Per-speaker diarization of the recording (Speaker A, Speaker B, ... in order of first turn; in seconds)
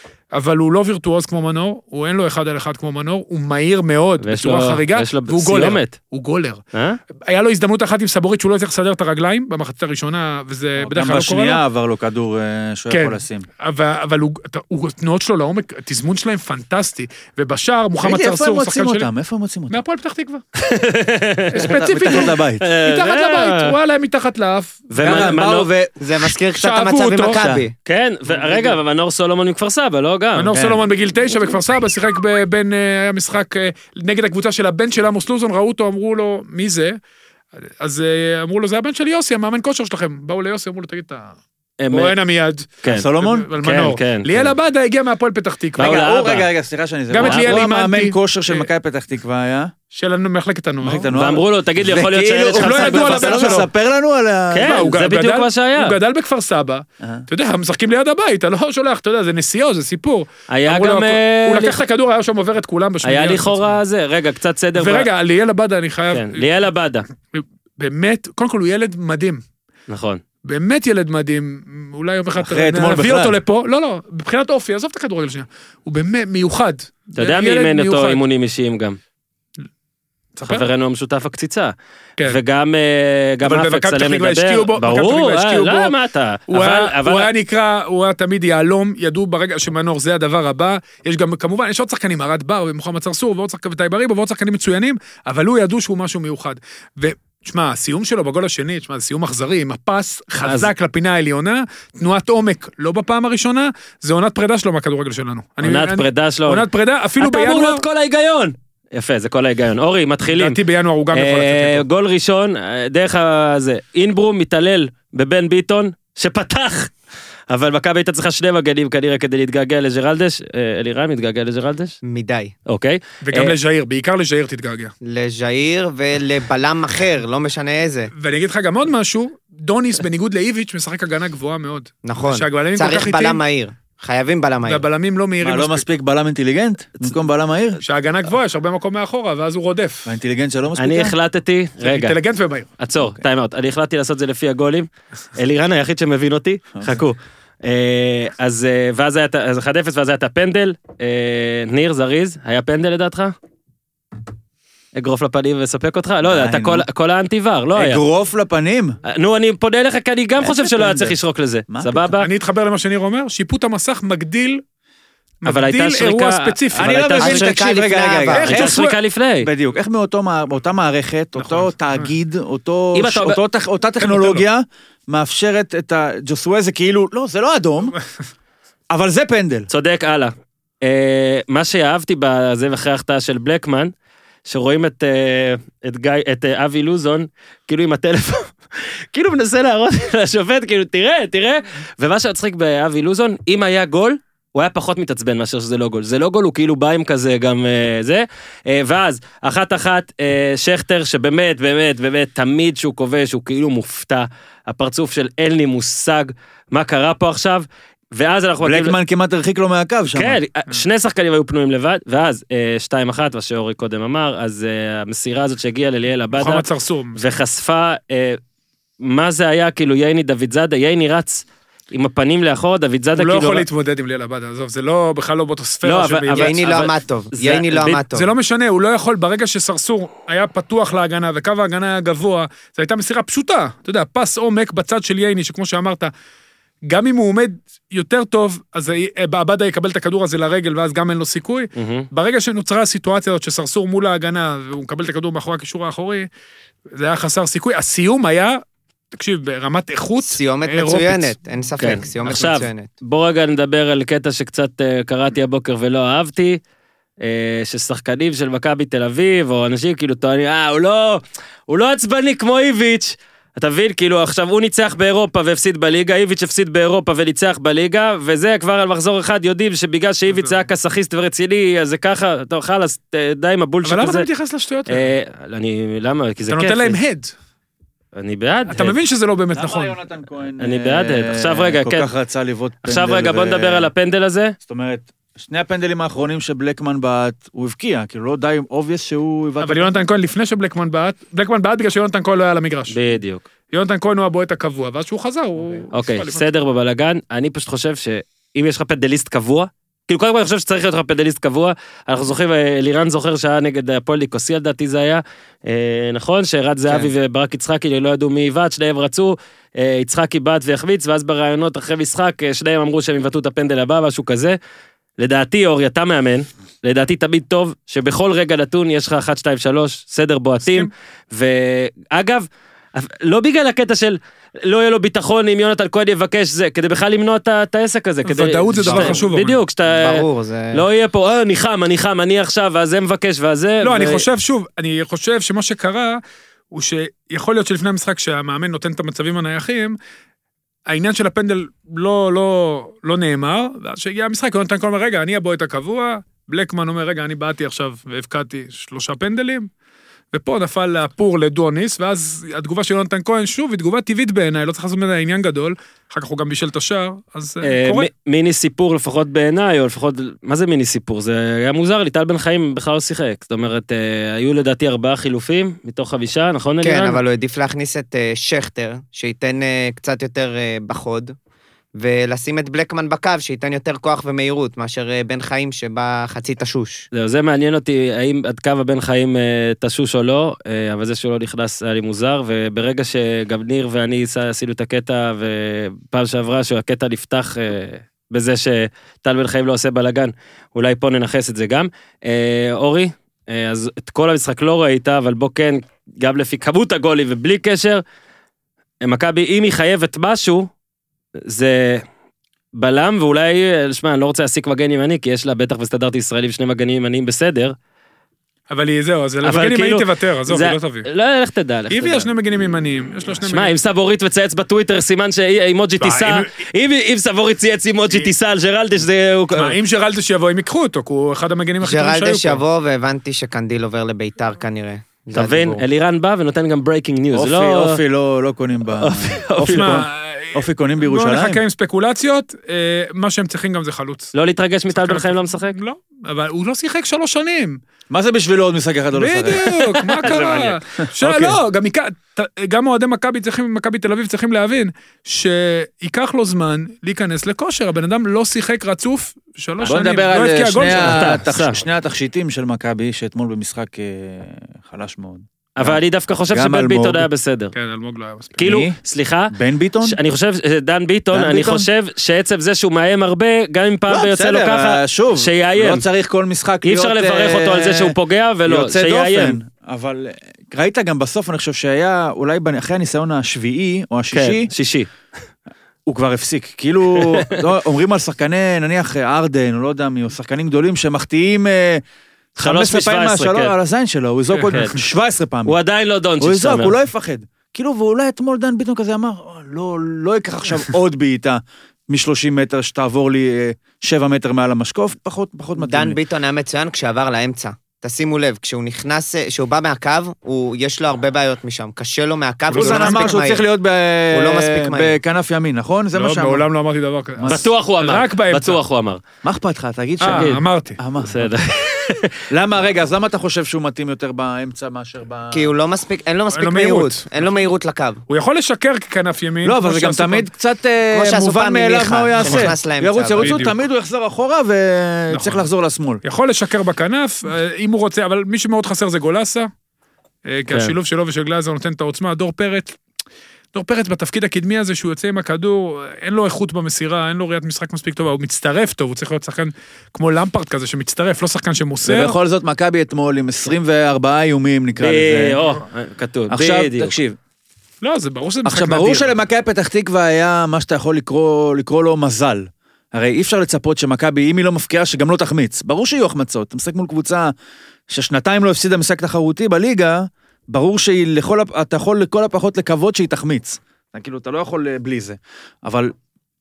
Speaker A: 0.3-6.6, 7.2-11.6, 12.9-19.1, 19.7-20.4, 21.5-25.4, 26.2-27.4, 30.3-37.0, 37.7-41.4, 41.9-46.0, 47.1-48.7, 49.9-51.1, 52.5-53.7, 54.6-63.8, 64.8-66.6, 67.3-69.4, 70.4-78.2, 80.4-80.6, 83.4-85.9, 86.5-107.8, 110.3-111.8, 123.2-124.9, 128.2-133.4, 134.6-135.9, 137.8-140.1, 141.8-142.7, 162.2-164.6, 165.4-167.0, 168.3-169.0, 171.4-172.1, 174.0-174.4, 216.3-217.2, 223.2-226.6, 228.1-236.1, 236.9-246.3, 246.9-248.6, 249.1-251.3, 270.3-270.6, 273.8-275.1, 276.5-277.3, 278.7-279.9, 289.6-292.9, 293.7-296.5, 328.2-329.6, 333.8-336.2, 336.7-340.0, 340.9-349.7, 350.3-358.1, 408.7-411.1, 411.9-413.7, 416.0-416.5, 419.6-422.6, 429.6-434.3, 434.9-437.8, 439.1-451.4, 457.7-458.6, 484.5-484.9, 502.7-503.3, 506.1-508.8, 510.2-511.0, 516.5-517.5, 518.3-520.5, 522.4-522.7, 523.4-523.7, 525.3-525.7, 526.2-529.7, 530.5-533.0, 533.7-542.4, 548.0-549.3
Speaker B: 4.2-5.9, 6.7-7.0, 20.6-23.7, 24.9-25.7, 27.8-30.7, 41.8-42.1, 42.8-43.1, 43.6-44.5, 45.8-46.5, 47.2-47.6, 51.1-53.6, 54.5-55.9, 60.5-61.8, 63.0-65.1, 66.1-67.0, 69.9-70.2, 77.1-79.0, 80.4-81.7, 82.2-87.3, 100.4-100.7, 105.6-106.6, 107.2-110.6, 111.1-116.9, 117.5-122.0, 122.7-123.5, 140.8-142.1, 142.8-153.3, 154.9-158.0, 159.0-162.3, 165.4-167.7, 168.4-169.5, 172.9-173.4, 179.7-183.9, 184.4-208.9, 210.1-216.6, 217.2-218.4, 219.0-223.7, 225.8-228.0, 241.7-242.1, 251.8-256.6, 257.2-274.3, 274.9-277.0, 278.1-279.0, 280.6-282.1, 282.8-284.6, 292.9-293.4, 295.9-314.6, 315.2-334.2, 357.6-367.2, 377.1-398.0, 399.0-400.7, 401.4-402.0, 402.8-407.8, 409.4-412.3, 413.5-419.8, 425.3-428.0, 428.9-430.0, 434.3-435.8, 440.2-440.8, 450.9-451.8, 455.8-457.7, 458.6-466.0, 466.8-469.6, 474.3-475.1, 477.1-477.4, 482.6-483.7, 484.6-484.9, 485.6-486.9, 507.4-509.2, 510.2-510.6, 511.2-512.3, 530.7-530.9, 545.0-547.1
Speaker C: 10.8-13.5, 18.0-19.8, 21.6-22.6, 25.0-25.9, 27.4-27.6, 42.9-43.5, 45.8-49.7, 50.8-54.9, 72.4-73.4, 135.4-137.8, 140.1-141.1, 156.2-156.8, 157.8-159.0, 160.4-161.1, 161.7-162.1, 166.7-168.8, 169.4-177.9, 178.9-179.7, 208.6-210.4, 279.5-283.9, 284.6-289.9, 427.3-431.6, 438.1-441.6, 449.8-456.0, 456.5-457.3, 458.6-458.9, 459.5-460.2, 461.3-461.9, 464.1-474.7, 476.1-482.0, 482.6-485.7, 486.4-496.2, 502.7-506.6, 507.4-507.7, 509.4-511.5, 512.5-515.7, 519.6-526.2, 542.0-545.6, 546.5-547.4, 548.6-557.5, 558.1-566.1
Speaker D: 26.0-27.7, 122.0-122.5, 125.0-128.1, 132.0-134.8, 167.2-168.5, 226.3-228.3, 250.2-252.9, 328.8-329.2, 329.9-330.8, 366.8-371.3, 372.0-377.1, 421.8-425.8, 495.8-503.6, 504.3-505.1, 515.5-518.2, 521.1-523.6